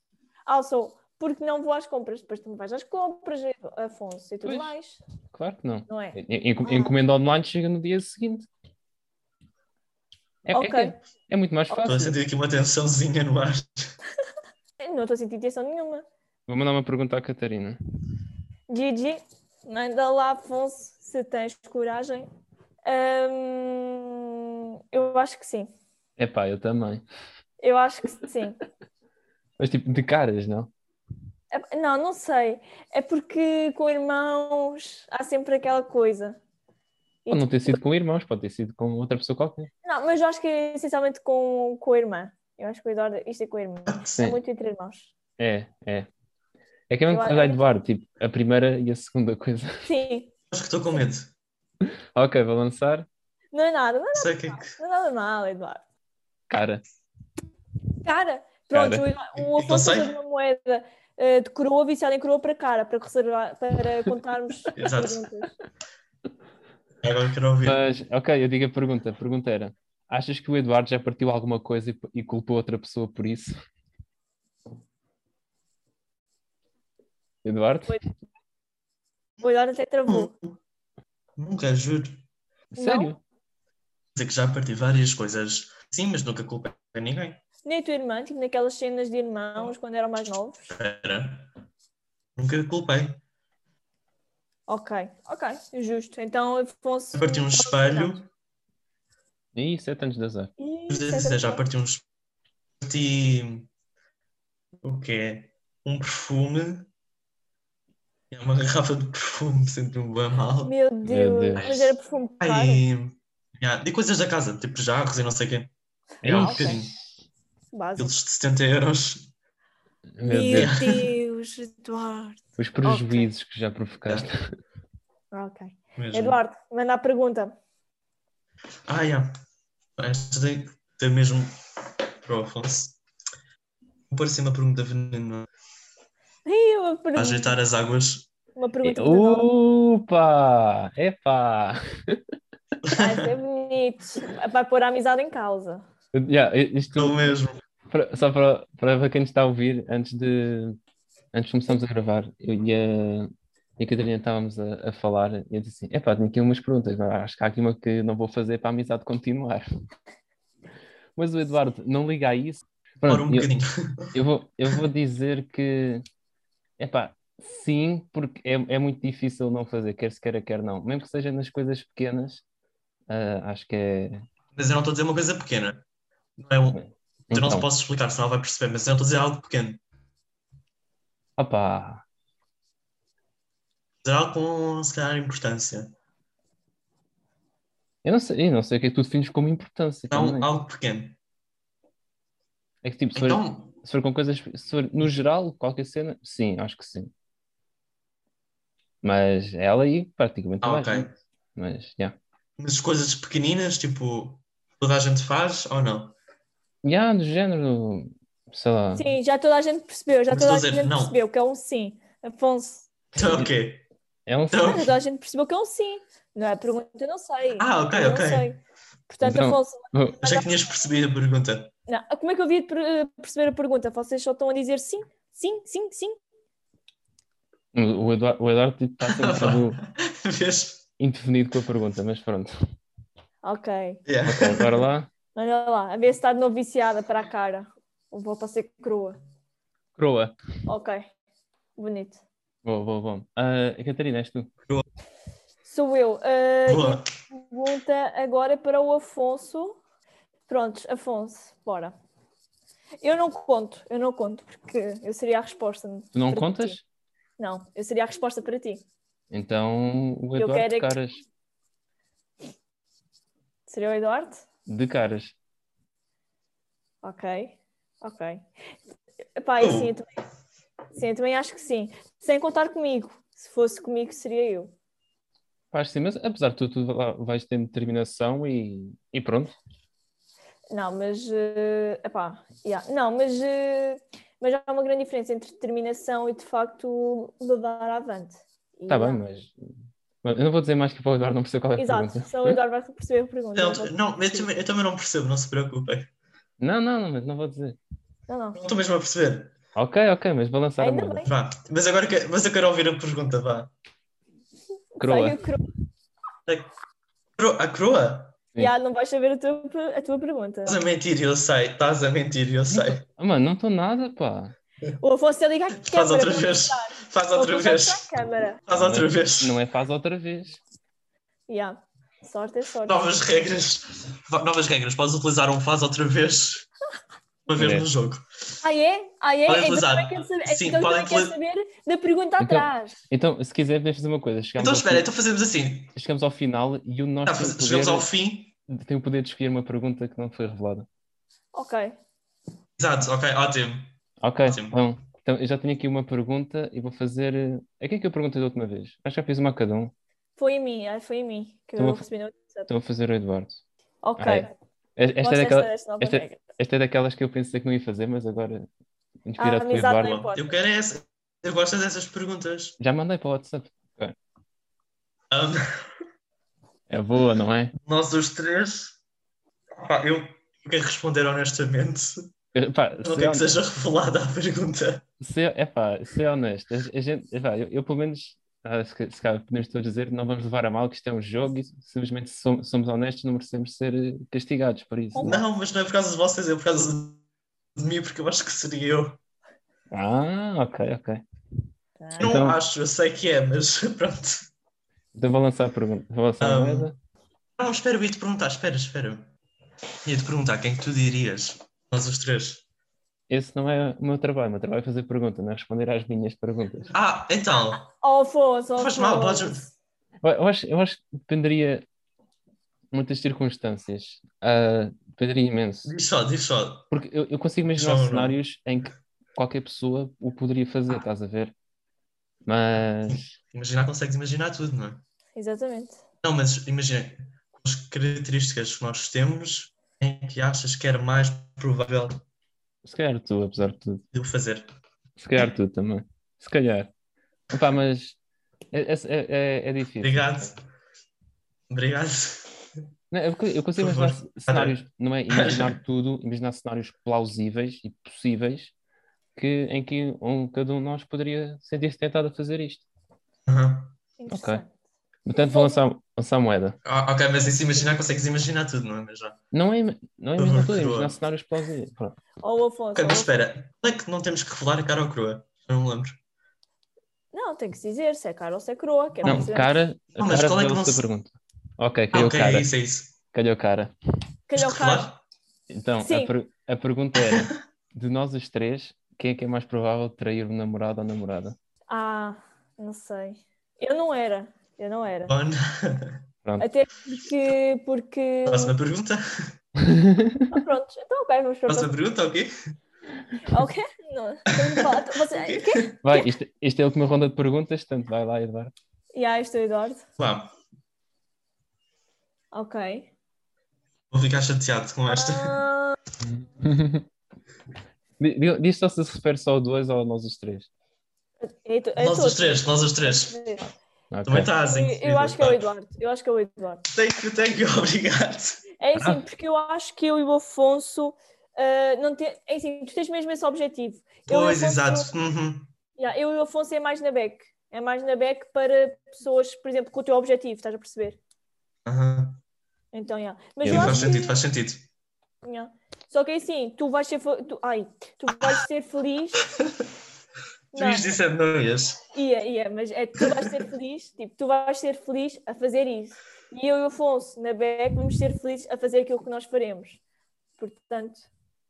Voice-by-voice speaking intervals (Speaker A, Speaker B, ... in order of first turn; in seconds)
Speaker A: 0.5-5.0, 5.9-7.0, 10.5-11.0, 14.8-16.1, 18.7-22.3, 22.9-25.7, 27.6-28.6, 31.5-36.4, 37.2-37.8, 39.8-45.1, 47.1-47.6, 49.9-50.3, 53.5-55.8, 58.0-65.5, 79.4-80.3, 82.8-83.1, 87.7-90.6, 94.7-98.2, 100.6-101.7, 110.6-112.8, 116.2-116.8, 117.7-118.1, 120.2-123.3, 125.3-127.5, 136.5-137.6, 138.6-139.5, 142.9-145.8, 208.9-212.9, 214.6-220.5, 221.9-226.2, 233.4-234.0, 235.3-239.2, 240.7-241.1, 241.8-242.2, 245.7-249.8, 250.5-251.9, 253.0-256.8, 257.4-258.9, 260.4-260.9, 263.7-264.4, 267.0-268.5, 269.4-270.1, 270.9-274.7, 280.7-289.2, 291.8-294.5, 298.3-298.6, 300.8-301.3, 305.0-305.6, 308.6-310.8, 315.0-318.6, 321.5-323.2, 328.6-333.0, 341.5-342.0, 350.4-352.7, 354.0-354.5, 355.2-356.4, 359.4-360.5, 385.1-385.4, 392.0-392.4, 407.5-409.5, 425.4-426.0, 454.2-454.7, 455.3-455.8, 462.4-463.3, 467.3-469.8, 474.5-475.1, 476.0-476.3, 481.9-485.3, 486.6-488.8, 490.5-491.9, 493.5-496.3, 499.1-500.1, 502.5-503.1, 505.1-506.0, 511.4-513.7, 514.6-516.8, 518.8-525.1, 526.0-531.2, 532.9-534.4, 535.4-539.5, 540.7-541.1, 542.1-550.0, 550.6-551.3
Speaker B: 4.5-4.7, 5.3-8.5, 10.5-12.2, 16.5-17.8, 26.2-27.1, 29.6-30.7, 37.3-39.7, 45.4-46.1, 46.9-49.9, 52.1-53.1, 56.5-56.8, 58.7-59.1, 67.7-73.6, 77.4-78.0, 82.8-83.2, 99.5-100.5, 111.0-111.7, 116.2-116.9, 120.2-120.7, 122.6-124.4, 138.8-142.3, 146.1-147.3, 147.9-150.8, 151.3-159.7, 161.2-163.5, 164.1-166.1, 166.8-172.4, 173.1-174.2, 176.7-177.7, 181.4-182.0, 188.0-190.5, 192.8-197.1, 199.0-202.2, 206.8-209.2, 213.2-213.5, 214.3-214.8, 219.2-220.2, 227.7-229.8, 231.0-232.5, 234.2-235.1, 240.0-240.3, 242.6-244.5, 256.1-256.8, 259.3-261.2, 264.7-265.4, 275.7-279.6, 288.9-292.6, 296.6-297.8, 299.8-301.3, 305.0-305.4, 312.7-314.6, 318.7-320.6, 327.6-327.9, 332.4-335.1, 335.9-338.1, 338.7-340.9, 344.2-349.9, 351.8-352.1, 352.7-353.6, 354.2-358.7, 359.2-360.2, 362.8-364.2, 366.9-367.7, 372.5-373.5, 375.2-385.4, 389.9-391.2, 392.2-392.6, 395.1-397.0, 403.3-406.9, 410.2-411.9, 412.9-415.9, 416.9-421.5, 422.4-423.3, 432.8-434.0, 435.2-436.9, 437.5-438.2, 438.7-440.5, 443.1-448.7, 449.4-452.9, 454.3-454.6, 455.3-456.8, 459.5-462.2, 469.2-472.7, 473.3-473.9, 475.7-481.6, 489.8-490.5, 496.0-498.7, 506.2-507.1, 508.2-510.7, 514.1-514.5, 519.0-519.2, 533.6-534.1
Speaker C: 11.8-13.9, 43.9-44.2, 50.5-51.3, 54.1-54.7, 59.4-60.1, 64.8-65.2, 67.0-67.8, 80.1-80.5, 81.4-82.2, 84.2-87.4, 90.7-91.5, 92.4-93.2, 97.1-98.3, 100.9-102.0, 102.8-103.7, 104.8-106.9, 108.3-110.7, 111.6-115.7, 116.2-117.0, 118.0-119.3, 120.5-121.2, 126.0-126.4, 128.9-129.3, 130.0-131.6, 132.2-133.0, 134.1-135.5, 137.2-138.3, 142.8-143.3, 146.9-147.6, 163.0-164.1, 174.5-175.8, 176.4-179.8, 184.0-185.9, 190.1-191.2, 193.2-193.7, 200.6-201.1, 202.6-206.2, 210.3-211.2, 213.2-213.8, 214.5-214.9, 217.6-218.6, 220.2-221.7, 229.0-230.8, 234.1-234.9, 246.7-247.1, 269.6-269.9, 293.6-296.1, 298.6-299.6, 301.3-303.7, 307.4-308.4, 310.7-313.0, 315.8-318.1, 318.7-319.5, 322.9-326.7, 327.5-328.3, 329.5-331.4, 334.6-335.9, 337.2-338.5, 342.8-344.8, 360.0-362.8, 365.3-365.8, 367.8-369.0, 369.8-372.3, 373.0-375.0, 385.2-387.2, 387.8-389.2, 392.2-394.5, 396.4-396.9, 397.6-399.3, 400.1-402.6, 406.9-407.8, 408.8-409.6, 415.9-416.9, 417.7-418.4, 423.1-425.0, 426.2-432.2, 434.1-434.7, 440.0-440.6, 441.7-442.5, 443.8-445.8, 453.5-454.0, 456.9-459.4, 460.4-461.2, 462.9-466.2, 469.2-469.5, 470.2-471.0, 472.1-473.2, 474.5-475.2, 485.3-486.2, 488.5-489.5, 491.7-492.5, 494.8-495.9, 500.2-500.5, 504.1-505.6, 512.0-513.4, 514.2-515.7, 516.9-518.6, 524.3-525.7, 531.9-532.4, 533.6-534.9, 540.7-542.0